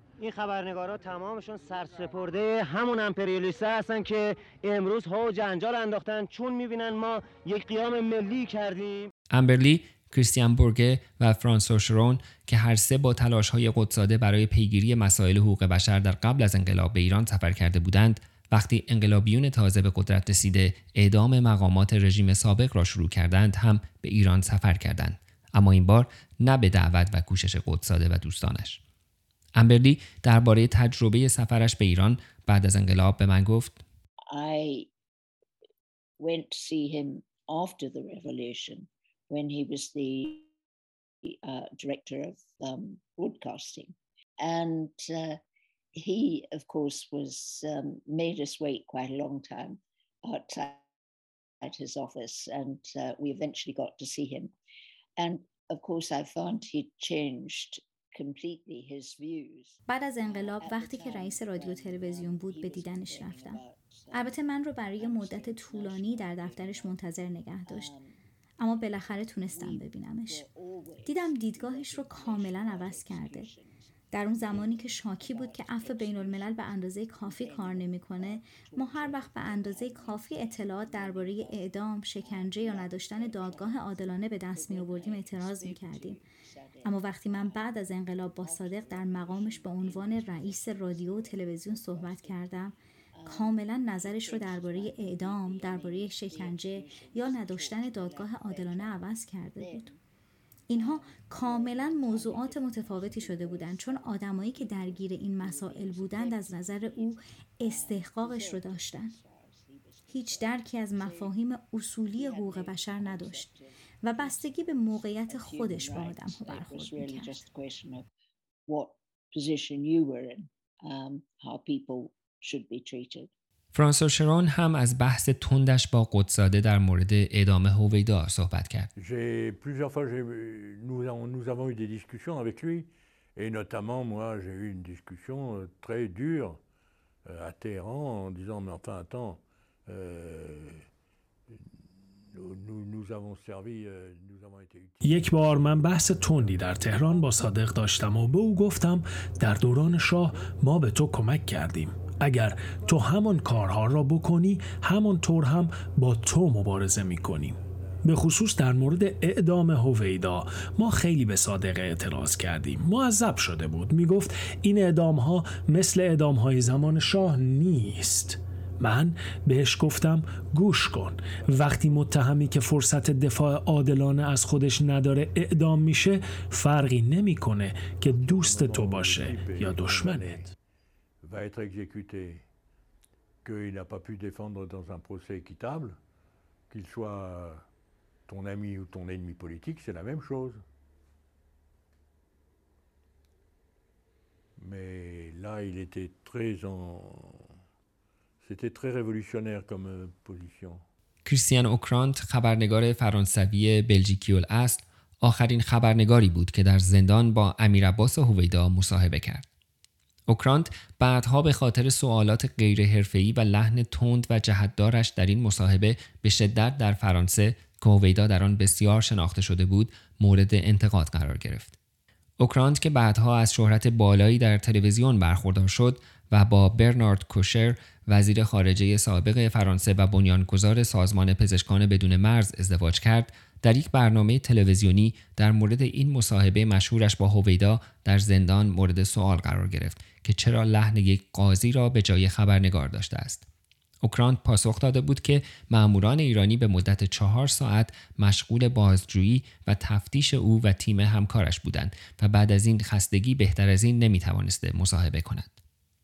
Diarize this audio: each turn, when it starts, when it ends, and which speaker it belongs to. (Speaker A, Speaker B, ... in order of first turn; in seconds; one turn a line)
Speaker A: 0.2-4.2
Speaker A: 4.7-8.2
Speaker B: 9.3-28.8
Speaker B: 29.6-33.8
Speaker C: 34.3-34.9
Speaker C: 36.2-40.5
Speaker C: 41.3-45.4
Speaker C: 46.0-50.8
Speaker C: 51.6-54.5
Speaker C: 55.2-64.4
Speaker D: 59.9-67.9
Speaker C: 65.0-67.0
Speaker C: 67.7-68.2
Speaker D: 68.6-70.5
Speaker C: 69.4-76.7
Speaker D: 71.0-73.5
Speaker D: 74.1-86.2
Speaker C: 77.2-87.8
Speaker D: 86.8-99.9
Speaker C: 88.4-92.6
Speaker C: 93.2-99.1
Speaker C: 99.6-100.0
Speaker D: 100.7-109.2
Speaker C: 100.7-111.3
Speaker D: 110.1-113.5
Speaker C: 112.1-118.1
Speaker D: 114.0-117.5
Speaker C: 118.7-123.3
Speaker B: 123.7-128.9
Speaker E: 129.0-136.6
Speaker E: 137.3-140.9
Speaker E: 142.3-145.3
Speaker F: 145.0-180.5
Speaker E: 146.5-146.9
Speaker E: 177.9-180.5
Speaker E: 181.2-182.4
Speaker E: 183.4-186.0
Speaker E: 186.7-187.7
Speaker E: 188.3-190.6
Speaker E: 194.6-197.5
Speaker E: 198.4-200.8
Speaker B: 201.3-209.5
Speaker B: 210.3-221.8
Speaker B: 222.4-243.4
Speaker B: 244.0-255.5